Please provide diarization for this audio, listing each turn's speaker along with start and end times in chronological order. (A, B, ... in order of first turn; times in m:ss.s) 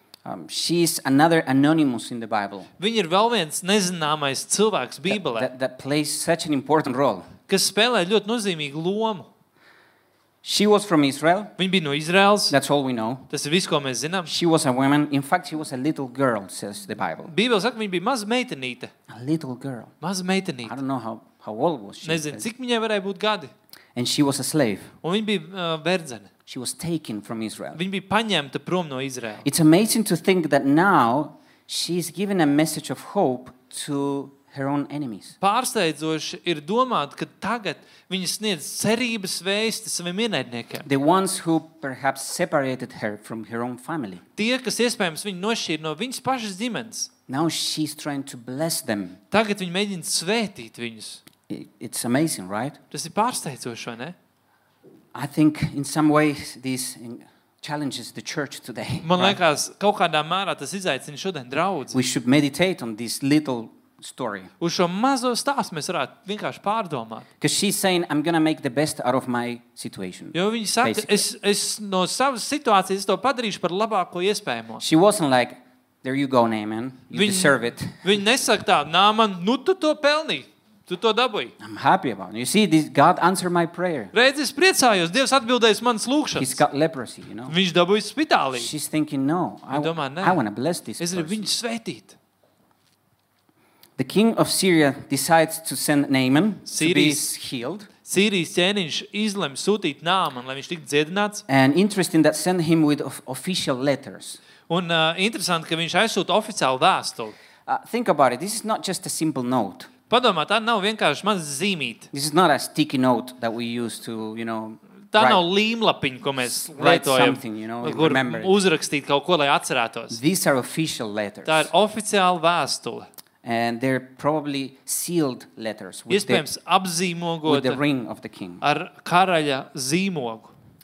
0:00.2-0:02.7 A
0:02.8-0:05.5 B
0:05.1-0:07.3 A
0:07.5-0:09.3 B
0:10.4-0:11.5 A
0:11.6-0:12.6 B
0:12.5-0:13.3 A
0:13.3-0:14.3 B
0:14.3-0:17.3 A
0:17.3-0:18.9 B
0:19.1-0:19.9 A
0:20.0-0:20.8 B
0:20.6-0:22.4 A
0:22.0-0:23.5 B
0:23.9-0:24.9 A
0:25.0-0:26.3 B
0:26.5-0:27.8 A
0:27.7-0:29.4 B
0:29.4-0:35.3 A
0:35.4-0:40.9 B
0:40.8-0:44.2 A
0:44.4-0:47.1 B
0:47.3-0:49.2 A
0:49.3-0:51.2 B
0:51.5-0:52.8 A
0:52.9-0:54.1 B
0:55.1-0:59.4 A
0:59.0-1:02.0 B
1:01.9-1:04.5 A
1:04.6-1:07.2 B
1:07.4-1:11.2 A
1:10.3-1:14.8 B
1:14.8-1:18.0 A
1:17.1-1:21.5 B
1:21.6-1:24.1 A
1:24.1-1:26.6 B
1:26.4-1:27.5 A
1:27.5-1:28.7 B
1:28.5-1:31.5 A
1:29.7-1:30.4 B
1:31.0-1:32.2 B
1:34.0-1:37.9 A
1:36.6-1:37.2 B
1:38.0-1:41.4 B
1:41.5-1:44.4 A
1:44.7-1:47.3 B
1:47.6-1:49.9 A
1:50.1-1:52.1 B
1:52.1-1:55.4 A
1:55.1-2:00.2 B
1:56.4-1:58.6 A
2:00.1-2:01.7 A
2:01.4-2:03.0 B
2:03.4-2:06.4 A
2:06.1-2:07.8 B
2:07.4-2:08.6 A
2:08.6-2:10.5 B